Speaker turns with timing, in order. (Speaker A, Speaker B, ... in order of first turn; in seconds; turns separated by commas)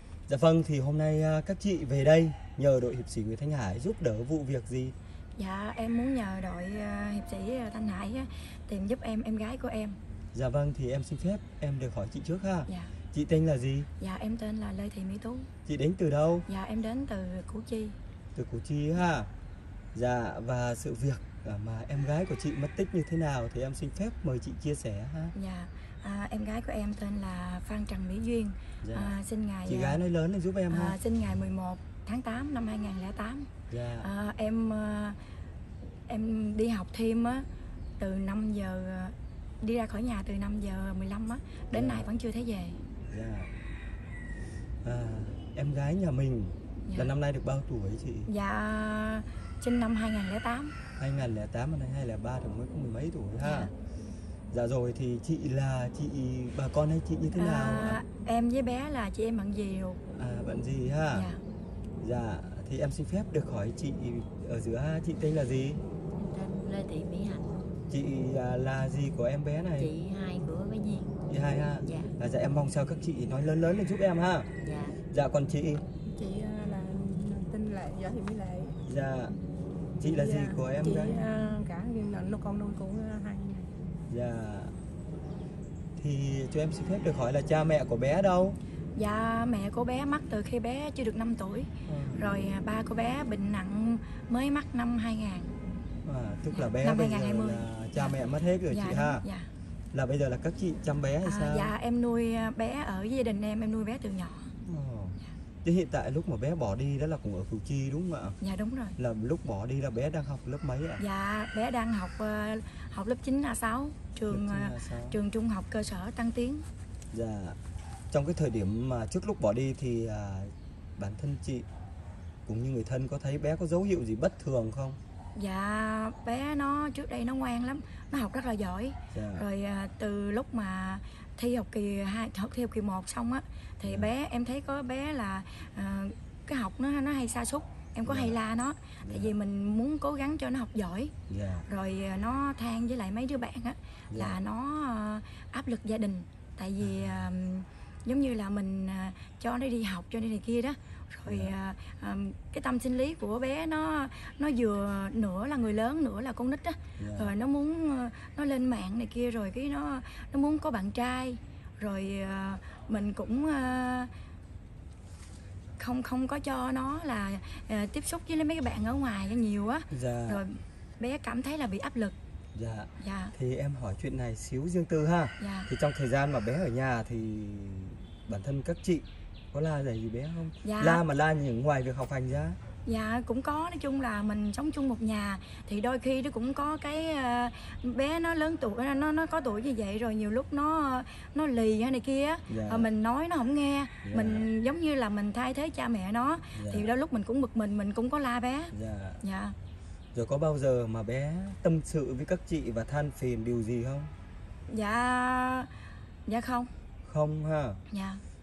Speaker A: 0.3-4.9, Speaker B: 5.4-10.0, Speaker A: 10.3-13.9, Speaker B: 14.0-15.5, Speaker A: 15.6-16.5, Speaker B: 16.5-17.9, Speaker A: 18.3-19.3, Speaker A: 19.9-25.3, Speaker B: 25.3-30.0, Speaker A: 28.8-31.0, Speaker B: 30.7-35.2, Speaker A: 33.7-34.1, Speaker B: 36.1-37.5, Speaker B: 38.0-42.8, Speaker A: 41.7-42.1, Speaker A: 43.1-43.5, Speaker A: 44.8-48.3, Speaker B: 48.3-50.7, Speaker A: 51.0-53.7, Speaker B: 53.4-53.7, Speaker A: 54.5-58.0, Speaker B: 57.3-60.0, Speaker A: 60.1-61.3, Speaker B: 61.1-61.4, Speaker A: 62.0-65.8, Speaker C: 66.2-67.6, Speaker A: 67.9-69.9, Speaker C: 69.8-71.2, Speaker A: 71.3-74.5, Speaker C: 71.8-72.1, Speaker C: 74.6-74.9, Speaker A: 75.1-75.8, Speaker D: 76.0-78.8, Speaker A: 78.8-79.3, Speaker A: 80.0-81.2, Speaker D: 80.0-83.7, Speaker A: 84.1-84.7, Speaker A: 86.0-88.6, Speaker B: 88.9-95.5, Speaker A: 91.9-92.3, Speaker A: 96.0-99.2, Speaker B: 96.5-98.2, Speaker B: 98.7-99.5, Speaker A: 99.9-101.7, Speaker B: 101.2-104.5, Speaker A: 104.6-108.4, Speaker B: 108.4-109.0, Speaker A: 109.0-111.0, Speaker B: 111.0-116.6, Speaker A: 114.3-115.2, Speaker A: 117.1-117.6, Speaker A: 118.1-121.7, Speaker A: 122.5-125.0, Speaker B: 125.3-141.1, Speaker A: 129.1-129.5, Speaker A: 133.8-134.1, Speaker A: 138.0-138.4, Speaker A: 139.0-139.3, Speaker A: 141.3-141.7, Speaker B: 141.7-164.1, Speaker A: 144.1-144.4, Speaker A: 146.8-147.2, Speaker A: 151.2-151.5, Speaker A: 157.0-157.3, Speaker B: 165.8-172.2, Speaker A: 169.9-170.4, Speaker A: 172.5-182.6, Speaker B: 173.0-173.3, Speaker B: 175.4-175.7, Speaker B: 180.6-181.0, Speaker B: 182.8-199.6, Speaker A: 192.5-192.9, Speaker A: 194.0-194.5, Speaker A: 196.5-196.9, Speaker A: 198.7-199.2, Speaker A: 200.1-204.1, Speaker B: 204.7-205.7, Speaker B: 206.2-206.7, Speaker A: 207.0-207.8, Speaker B: 207.9-208.2